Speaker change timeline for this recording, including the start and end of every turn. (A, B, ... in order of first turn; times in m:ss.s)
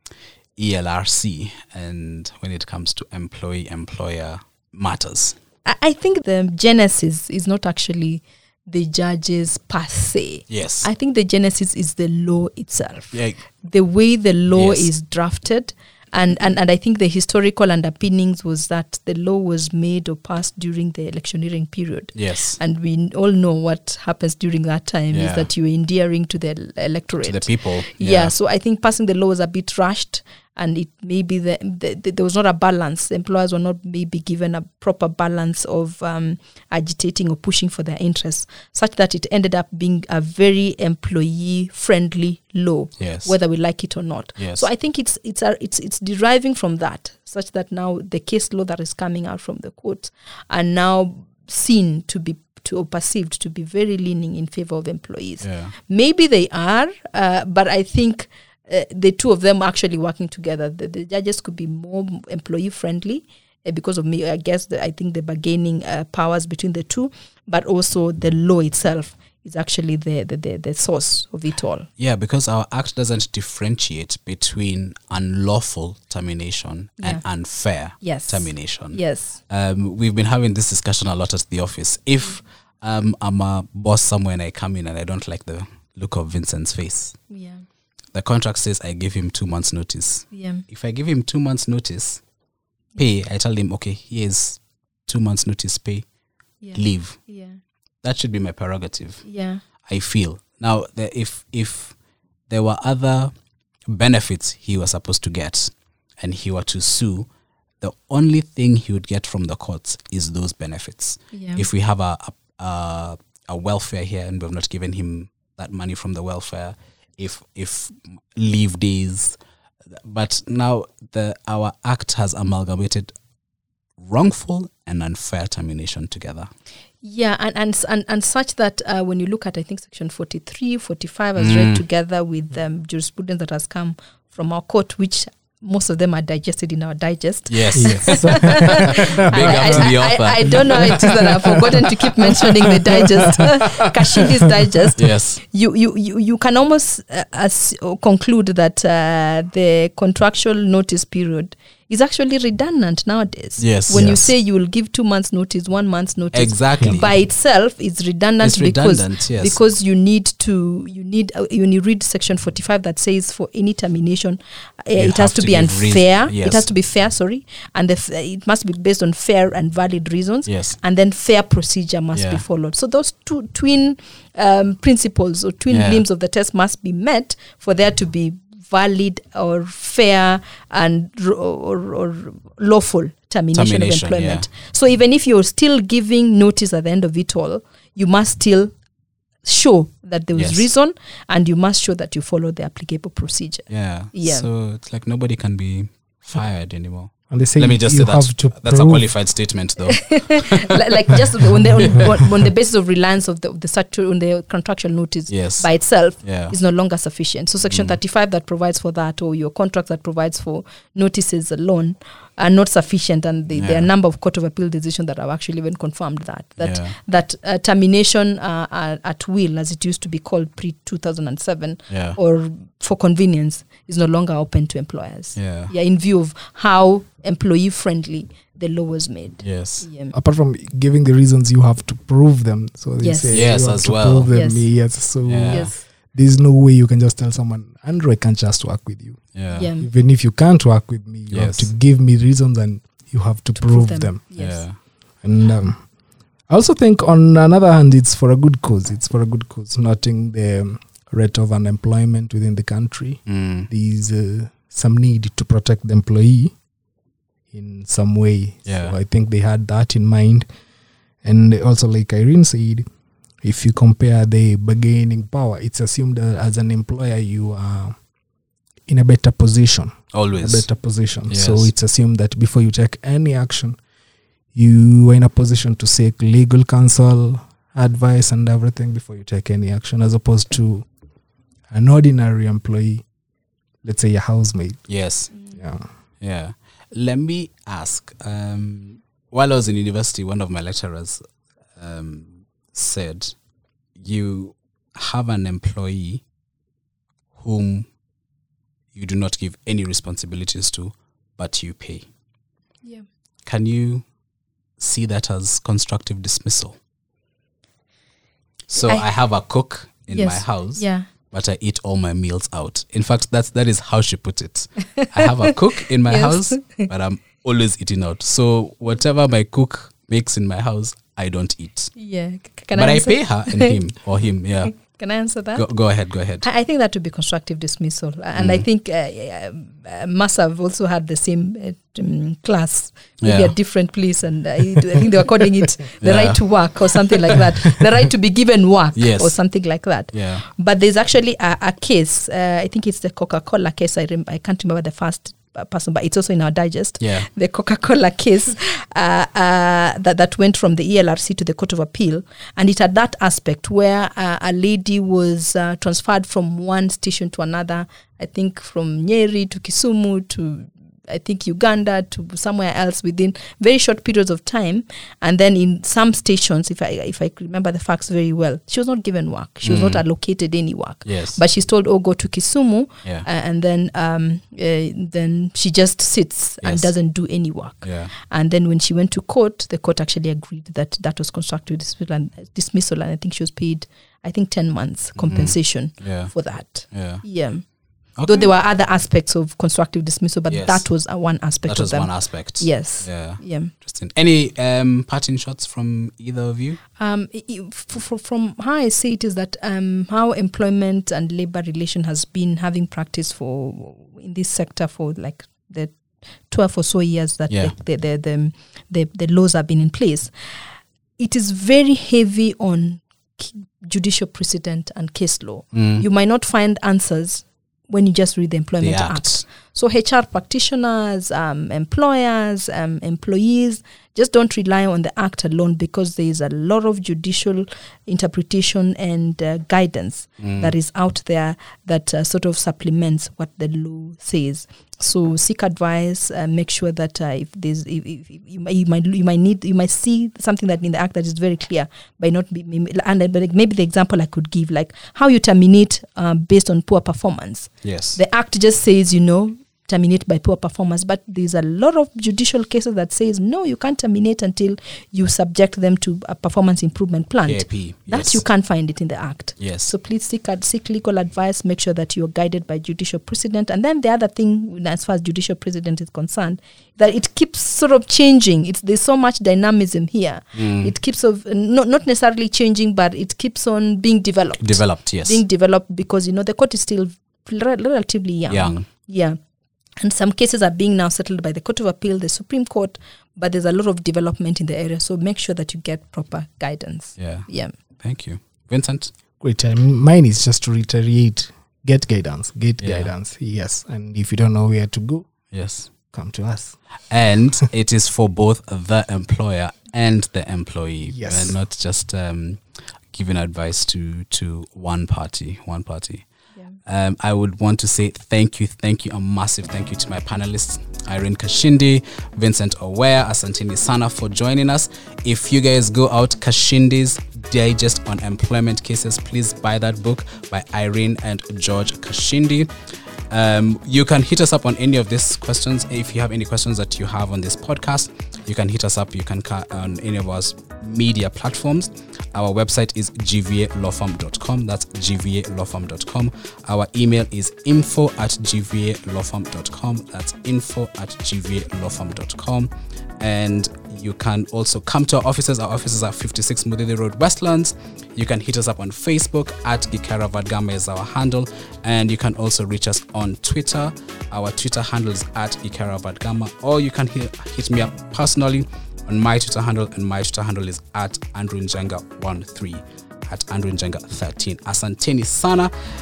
0:00.6-0:05.4 A
0:05.6-1:11.9 B
0:10.5-0:10.9 A
0:13.1-0:13.4 A
0:14.5-0:14.9 A
0:22.1-0:22.6 A
0:25.1-0:25.5 A
0:27.2-0:28.3 A
0:43.0-0:43.3 A
0:44.4-0:44.6 A
0:55.4-0:55.7 A
1:12.0-1:27.2 A
1:18.0-1:19.4 B
1:27.3-1:27.6 B
1:28.1-1:32.2 A
1:30.3-1:30.6 B
1:33.0-1:36.0 A
1:36.6-1:37.6 B
1:36.7-1:37.2 A
1:38.0-1:39.2 A
1:39.2-1:39.6 B
1:39.9-1:41.9 A
1:42.5-1:43.3 A
1:43.9-1:47.3 A
1:47.8-1:59.4 A
1:51.3-1:51.6 B
1:59.9-2:03.1 A
2:04.0-2:06.5 A
2:07.0-3:08.7 B
2:11.4-2:11.8 A
2:17.5-2:21.4 A
2:17.7-2:19.9 C
2:20.5-2:21.3 C
2:25.0-2:25.4 A
2:33.6-2:34.3 A
2:33.9-2:34.3 C
2:36.3-2:37.1 A
2:38.4-2:39.6 A
2:45.0-2:46.7 A
2:50.4-2:50.8 A
2:52.1-2:52.4 A
2:55.7-2:56.0 A
3:03.5-3:04.5 A
3:09.4-3:14.5 B
3:10.3-3:10.7 A
3:13.7-3:20.6 A
3:17.3-3:19.1 C
3:19.9-3:50.1 B
3:21.5-3:22.2 A
3:25.3-3:25.7 A
3:26.2-3:26.6 A
3:27.6-3:28.0 A
3:33.5-3:33.9 A
3:36.6-3:37.0 A
3:41.9-3:42.2 A
3:45.3-3:45.7 A
3:49.4-3:49.9 A
3:50.1-4:04.3 C
3:53.0-3:53.4 B
3:53.3-3:54.3 A
3:54.3-3:54.7 B
3:55.2-3:55.7 A
3:55.5-3:55.8 B
3:59.3-3:59.7 A
3:59.5-3:59.9 B
4:01.3-4:01.7 A
4:03.6-4:04.6 B
4:04.4-4:04.8 A
4:05.2-4:05.8 C
4:06.5-4:16.5 C
4:13.3-4:13.7 A
4:17.5-4:20.4 C
4:18.6-4:18.9 A
4:21.2-4:22.8 C
4:23.4-4:28.0 C
4:28.9-4:33.8 C
4:30.1-4:30.7 A
4:31.3-4:31.7 A
4:34.5-4:40.9 C
4:41.7-4:43.0 C
4:43.8-4:44.9 C
4:44.9-4:45.3 A
4:45.5-4:45.9 C
4:46.2-4:51.2 A
4:51.8-4:53.3 A
4:54.0-4:56.2 A
4:57.4-4:57.8 A
4:58.9-5:02.1 A
5:03.4-5:04.0 A
5:04.8-5:06.8 A
5:08.7-5:21.9 A
5:08.8-5:09.0 B
5:10.1-5:11.1 B
5:14.9-5:15.5 B
5:16.0-5:16.9 B
5:22.0-5:23.8 B
5:22.7-5:24.8 A
5:24.8-5:25.7 B
5:25.5-5:26.4 A
5:26.4-6:27.6 B
5:28.3-5:28.6 A
5:33.2-5:33.5 A
5:36.0-5:37.4 A
5:38.9-5:39.3 A
5:40.1-5:40.4 A
5:47.0-5:47.3 A
6:09.6-6:10.0 A
6:11.0-6:11.4 A
6:16.6-6:16.9 A
6:17.8-6:18.1 A
6:25.2-6:26.3 A
6:26.9-6:27.2 A
6:28.2-6:28.5 A
6:28.2-6:33.7 B
6:30.5-6:30.8 A
6:31.6-6:36.8 A
6:37.0-6:45.9 B
6:46.5-6:50.3 B
6:51.2-7:59.4 B
6:55.7-6:56.0 A
6:58.8-6:59.4 A
7:10.4-7:10.7 A
7:27.8-7:28.2 A
7:37.4-7:38.4 A
7:39.6-7:39.9 A
7:50.5-7:50.9 A
7:54.6-7:55.4 A
7:58.5-7:58.8 A
8:00.0-8:07.7 B
8:07.2-8:07.5 A
8:08.0-8:09.1 A
8:09.4-8:15.3 C
8:12.8-8:13.1 A
8:15.5-8:15.9 A
8:16.1-8:16.8 C
8:17.1-8:22.6 A
8:21.0-8:21.6 C
8:23.1-8:26.2 A
8:26.8-8:42.7 A
8:43.3-9:25.7 A